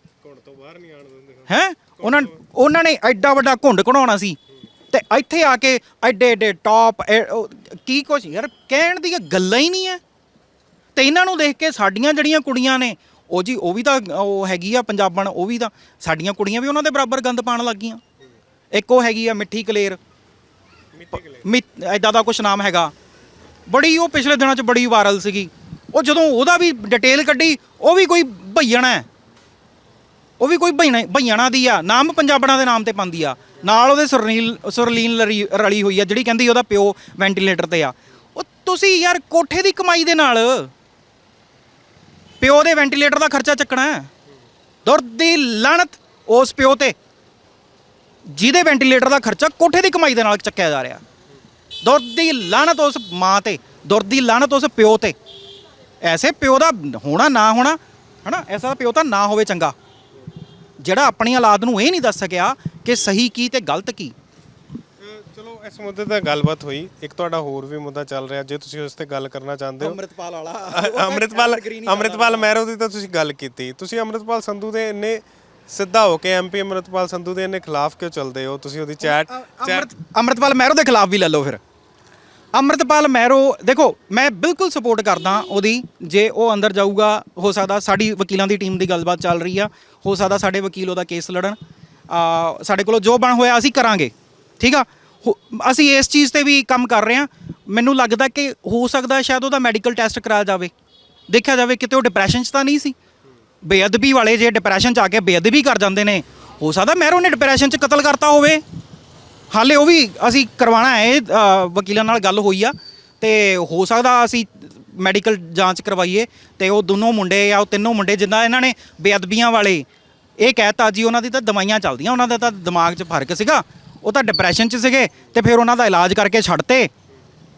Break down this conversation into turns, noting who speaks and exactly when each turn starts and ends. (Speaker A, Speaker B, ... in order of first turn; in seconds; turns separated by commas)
Speaker A: 0.2-2.4, Speaker B: 1.5-4.4, Speaker B: 4.9-10.0, Speaker B: 11.0-18.0, Speaker B: 18.8-20.0, Speaker A: 20.9-21.5, Speaker B: 21.4-22.9, Speaker B: 23.7-29.1, Speaker B: 30.4-40.7, Speaker B: 42.4-44.1, Speaker B: 44.9-47.0, Speaker B: 48.3-51.0, Speaker B: 51.8-55.2, Speaker B: 56.0-59.8, Speaker B: 60.8-64.2, Speaker A: 65.0-70.0, Speaker B: 69.8-72.5, Speaker A: 70.7-79.9, Speaker B: 79.0-81.6, Speaker B: 82.5-91.6, Speaker B: 92.1-100.7, Speaker B: 101.3-102.9, Speaker B: 103.6-108.6, Speaker B: 109.5-119.9, Speaker B: 120.4-126.9